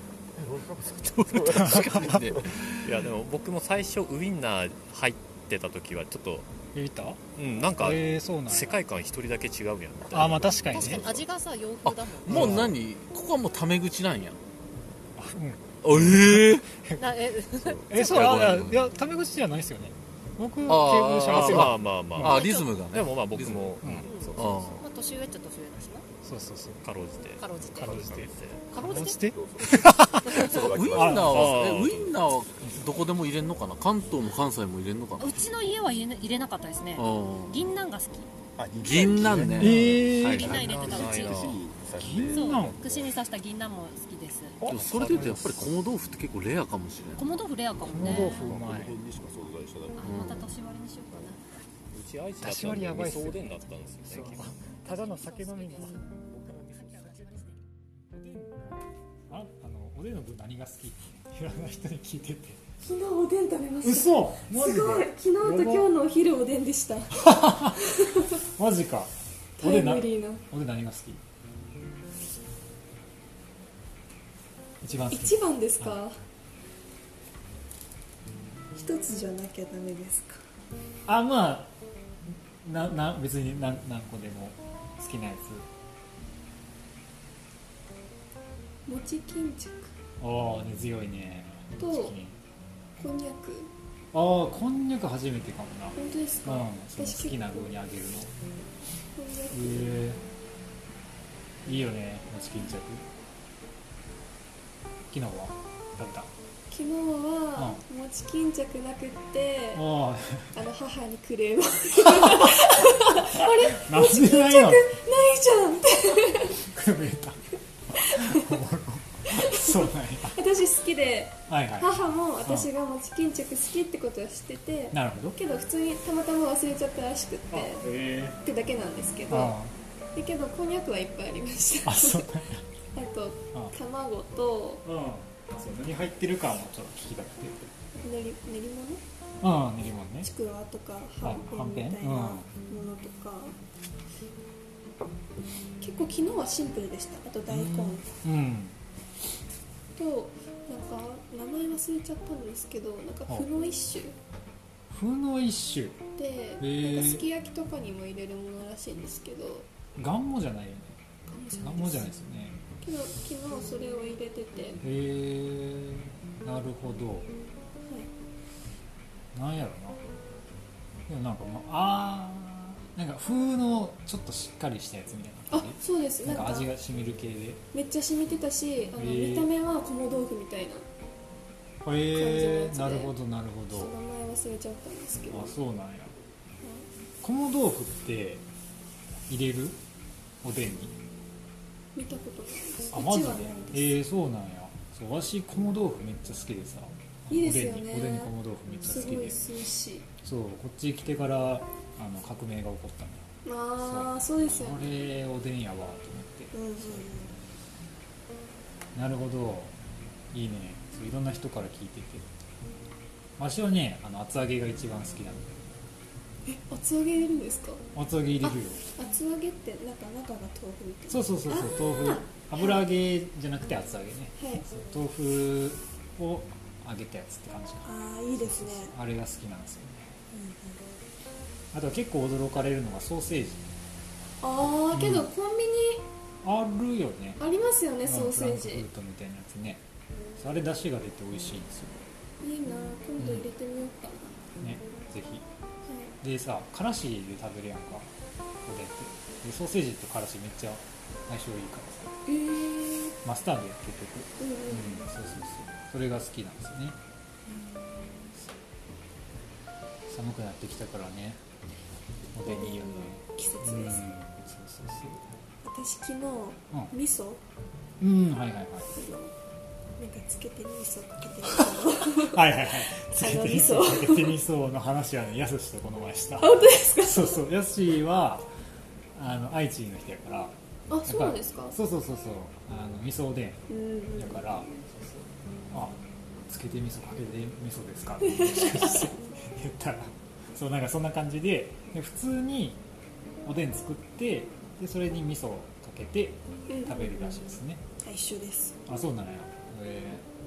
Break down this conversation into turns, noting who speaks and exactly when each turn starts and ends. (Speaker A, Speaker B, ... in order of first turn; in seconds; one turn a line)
Speaker A: 0.4-2.6
Speaker B: 1.2-2.6
Speaker C: 1.5-2.2
Speaker D: 2.8-6.5
Speaker C: 6.7-7.2
Speaker D: 7.4-11.1
Speaker C: 7.8-8.8
Speaker C: 10.1-11.1
Speaker B: 10.7-11.2
Speaker E: 10.8-12.7
Speaker B: 11.8-14.4
Speaker C: 12.3-12.8
Speaker C: 15.2-17.0
Speaker B: 15.8-16.7
Speaker E: 16.9-18.6
Speaker B: 17.9-18.8
Speaker C: 17.9-22.4
Speaker B: 20.7-24.8
Speaker D: 21.1-24.9
Speaker E: 22.3-22.8
Speaker C: 23.8-24.1
Speaker E: 24.0-26.1
Speaker C: 26.2-26.8
Speaker D: 26.8-28.7
Speaker E: 27.4-28.2
Speaker C: 27.8-31.5
Speaker E: 28.7-30.7
Speaker A: 28.7-32.1
Speaker B: 30.5-35.5
Speaker D: 31.3-32.1
Speaker E: 35.2-38.3
Speaker B: 37.0-37.6
Speaker A: 38.6-43.1
Speaker B: 38.8-41.9
Speaker E: 38.9-39.5
Speaker C: 39.6-40.9
Speaker E: 40.3-41.6
Speaker C: 42.0-42.8
Speaker E: 42.3-44.6
Speaker C: 44.6-45.8
Speaker B: 44.6-47.3
Speaker E: 47.2-48.5
Speaker C: 47.8-49.0
Speaker A: 47.9-50.3
Speaker E: 50.0-51.4
Speaker B: 50.0-50.5
Speaker D: 51.9-54.5
Speaker C: 52.4-56.0
Speaker E: 54.9-56.1
Speaker A: 56.3-57.3
Speaker E: 56.7-57.5
Speaker C: 58.1-58.8
Speaker C: 59.3-62.6
Speaker F: 62.8-68.3
Speaker C: 63.8-65.9
Speaker C: 67.2-67.8
Speaker C: 68.6-71.2
Speaker F: 69.6-70.4
Speaker C: 74.8-76.0
Speaker F: 75.1-76.2
Speaker F: 78.8-80.4
Speaker C: 81.1-81.7
Speaker C: 82.6-85.7
Speaker F: 88.9-89.9
Speaker C: 90.2-92.4
Speaker F: 91.8-92.2
Speaker F: 93.0-93.7
Speaker C: 94.1-98.3
Speaker F: 96.0-97.5
Speaker F: 99.2-100.1
Speaker C: 99.5-100.2
Speaker C: 101.7-103.1
Speaker C: 105.1-106.3
Speaker F: 106.7-109.9
Speaker C: 109.7-110.5
Speaker F: 110.5-116.6
Speaker C: 112.2-112.6
Speaker C: 113.8-114.9
Speaker C: 116.6-120.4
Speaker F: 118.0-118.6
Speaker F: 119.3-127.9
Speaker C: 121.5-121.9
Speaker C: 124.9-125.4
Speaker C: 127.5-128.4
Speaker F: 128.4-129.6
Speaker C: 129.3-129.7
Speaker F: 130.1-132.3
Speaker C: 131.8-132.6
Speaker F: 132.9-134.8
Speaker C: 134.8-137.7
Speaker F: 138.0-139.0
Speaker C: 139.4-140.3
Speaker F: 140.2-143.6
Speaker C: 141.2-142.5
Speaker F: 145.8-148.1
Speaker C: 147.5-148.8
Speaker F: 149.9-154.2
Speaker C: 154.9-156.1
Speaker F: 156.2-159.7
Speaker C: 156.6-157.2
Speaker C: 160.0-161.0
Speaker F: 161.3-162.1
Speaker C: 161.6-162.6
Speaker F: 162.8-164.8
Speaker C: 164.8-167.3
Speaker C: 169.3-170.0
Speaker C: 171.1-177.6
Speaker F: 175.5-176.7
Speaker F: 177.7-180.9
Speaker C: 179.0-179.5
Speaker C: 181.8-183.9
Speaker F: 182.1-183.2
Speaker F: 183.7-185.5
Speaker C: 185.3-186.2
Speaker C: 187.2-188.4
Speaker C: 189.3-189.8
Speaker C: 190.4-190.9
Speaker F: 191.9-194.0
Speaker C: 192.9-199.4
Speaker F: 197.3-200.1
Speaker C: 200.2-207.1
Speaker F: 203.4-204.9
Speaker F: 206.5-207.3
Speaker C: 208.9-209.7
Speaker C: 210.3-212.3
Speaker C: 213.4-215.7
Speaker F: 216.5-217.9
Speaker C: 217.9-218.8
Speaker F: 218.4-222.8
Speaker C: 221.1-230.2
Speaker F: 224.4-224.6
Speaker F: 227.8-228.9
Speaker F: 230.3-230.8
Speaker C: 231.7-233.7
Speaker F: 234.4-236.1
Speaker C: 234.9-235.3
Speaker C: 236.4-237.4
Speaker F: 237.4-238.9
Speaker C: 238.1-239.8
Speaker C: 240.4-242.0
Speaker F: 242.4-244.4
Speaker C: 243.2-243.5
Speaker C: 244.6-245.4
Speaker C: 246.2-248.1
Speaker C: 248.7-252.2
Speaker F: 252.3-253.2
Speaker C: 253.2-257.0
Speaker F: 254.4-255.2
Speaker F: 257.5-258.3
Speaker C: 260.1-261.4
Speaker C: 262.3-265.3
Speaker F: 262.4-264.1
Speaker F: 265.6-267.4
Speaker C: 268.0-268.9
Speaker F: 268.9-269.3
Speaker F: 270.0-274.4
Speaker C: 272.2-278.5
Speaker F: 276.4-277.4
Speaker C: 279.1-280.6
Speaker F: 280.9-281.8
Speaker C: 281.1-283.6
Speaker F: 283.7-284.8
Speaker C: 284.2-284.7
Speaker C: 285.7-292.8
Speaker F: 288.4-289.1
Speaker C: 293.4-297.8
Speaker F: 296.7-297.1
Speaker F: 298.0-298.8
Speaker C: 298.9-300.2